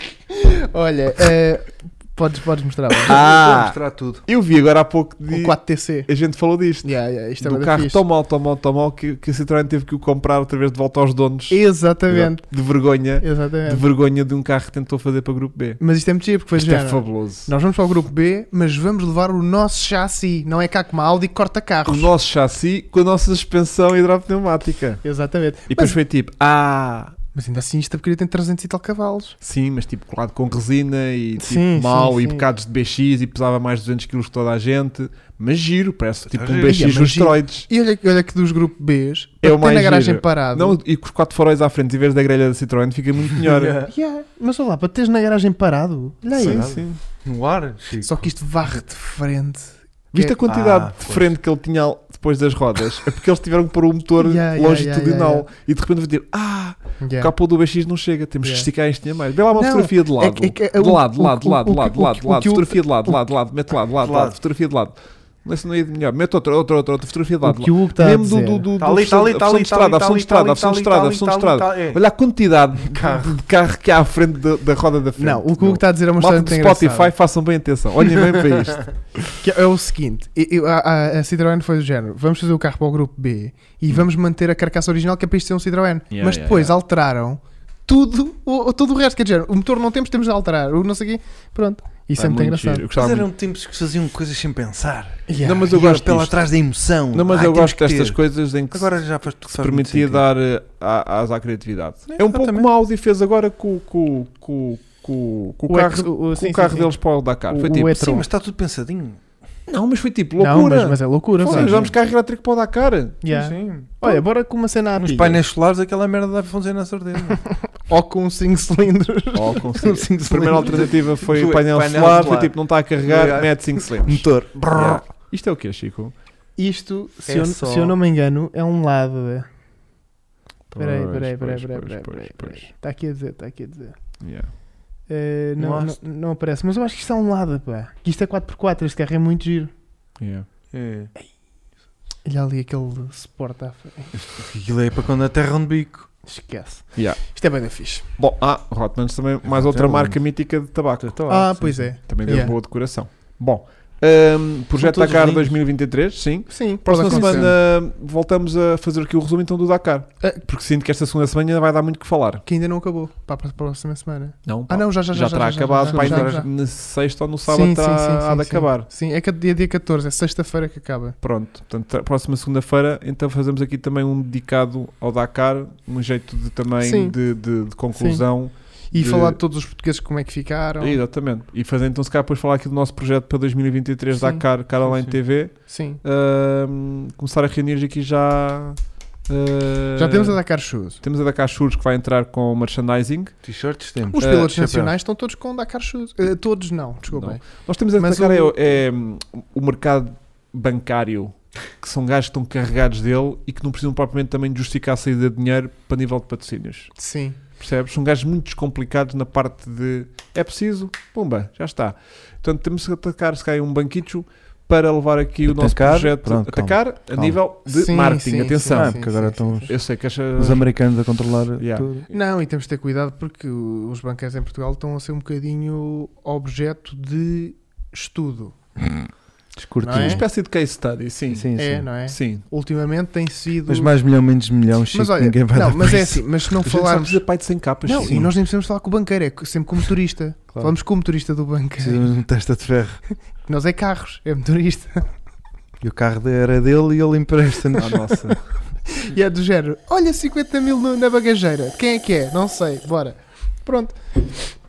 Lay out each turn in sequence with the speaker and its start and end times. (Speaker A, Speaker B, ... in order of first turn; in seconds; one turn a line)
Speaker A: 0.3-3.1
Speaker B: 3.1-15.8
Speaker C: 3.1-4.2
Speaker A: 5.3-6.1
Speaker A: 6.8-8.0
Speaker A: 11.5-12.4
Speaker A: 13.2-13.8
Speaker A: 15.8-22.1
Speaker B: 16.6-17.5
Speaker B: 21.9-25.0
Speaker A: 25.0-26.0
Speaker B: 25.7-27.2
Speaker A: 27.3-29.4
Speaker B: 29.4-37.7
Speaker A: 31.4-32.5
Speaker C: 36.3-36.8
Speaker A: 36.7-40.8
Speaker B: 39.4-43.8
Speaker C: 43.4-43.9
Speaker A: 43.9-46.7
Speaker C: 46.4-48.2
Speaker B: 46.4-47.0
Speaker A: 48.0-50.4
Speaker B: 50.1-79.4
Speaker C: 50.5-51.3
Speaker A: 54.2-55.5
Speaker A: 57.0-57.3
Speaker A: 58.4-58.7
Speaker A: 59.6-63.2
Speaker C: 64.0-64.4
Speaker A: 67.4-68.7
Speaker C: 68.8-72.0
Speaker C: 72.9-73.4
Speaker A: 75.2-77.1
Speaker A: 79.4-92.8
Speaker B: 86.1-86.7
Speaker B: 92.2-93.3
Speaker C: 93.0-98.2
Speaker A: 95.3-95.7
Speaker B: 95.4-96.5
Speaker B: 97.1-108.1
Speaker C: 98.7-100.2
Speaker C: 102.1-102.7
Speaker A: 105.7-106.9
Speaker A: 107.5-108.3
Speaker C: 107.9-109.2
Speaker B: 109.7-113.2
Speaker A: 110.4-111.8
Speaker C: 111.5-112.0
Speaker A: 113.2-115.4
Speaker C: 113.3-114.2
Speaker C: 115.0-117.4
Speaker A: 117.5-119.7
Speaker B: 119.3-126.1
Speaker C: 119.8-125.0
Speaker A: 126.6-129.5
Speaker C: 127.3-128.0
Speaker B: 130.7-132.7
Speaker A: 130.8-133.9
Speaker B: 134.2-134.5
Speaker A: 135.1-139.7
Speaker C: 135.6-136.0
Speaker B: 140.2-140.5
Speaker C: 140.7-141.1
Speaker A: 142.2-144.1
Speaker C: 144.1-146.1
Speaker A: 146.3-148.1
Speaker B: 147.0-147.2
Speaker B: 148.2-151.2
Speaker C: 149.5-150.2
Speaker C: 151.0-152.5
Speaker A: 151.3-152.5
Speaker B: 152.1-162.4
Speaker C: 154.8-155.6
Speaker A: 156.5-157.5
Speaker C: 157.1-157.6
Speaker A: 162.5-166.5
Speaker B: 164.5-168.9
Speaker C: 165.9-166.4
Speaker A: 167.5-171.2
Speaker B: 171.2-179.4
Speaker A: 176.8-177.2
Speaker A: 177.9-178.2
Speaker A: 178.9-181.0
Speaker B: 180.8-190.4
Speaker A: 184.1-184.4
Speaker C: 184.8-185.2
Speaker A: 185.7-186.0
Speaker A: 190.0-191.0
Speaker B: 191.0-193.3
Speaker C: 193.4-195.0
Speaker A: 194.1-197.5
Speaker B: 194.2-194.5
Speaker B: 197.1-206.9
Speaker A: 198.0-198.6
Speaker A: 207.0-207.4
Speaker B: 207.6-219.1
Speaker C: 215.4-217.4
Speaker A: 217.7-219.7
Speaker C: 218.7-219.8
Speaker B: 219.7-220.7
Speaker C: 220.4-222.1
Speaker B: 221.6-221.9
Speaker A: 222.1-228.6
Speaker C: 229.6-230.3
Speaker A: 229.8-230.2
Speaker B: 229.9-231.5
Speaker C: 231.3-231.9
Speaker A: 231.6-233.9
Speaker B: 232.1-232.4
Speaker C: 233.7-236.2
Speaker A: 234.9-237.2
Speaker B: 236.6-238.2
Speaker A: 237.8-242.1
Speaker C: 238.0-238.3
Speaker C: 241.8-243.0
Speaker A: 243.4-245.1
Speaker C: 245.8-248.0
Speaker B: 247.8-248.4
Speaker A: 248.9-254.3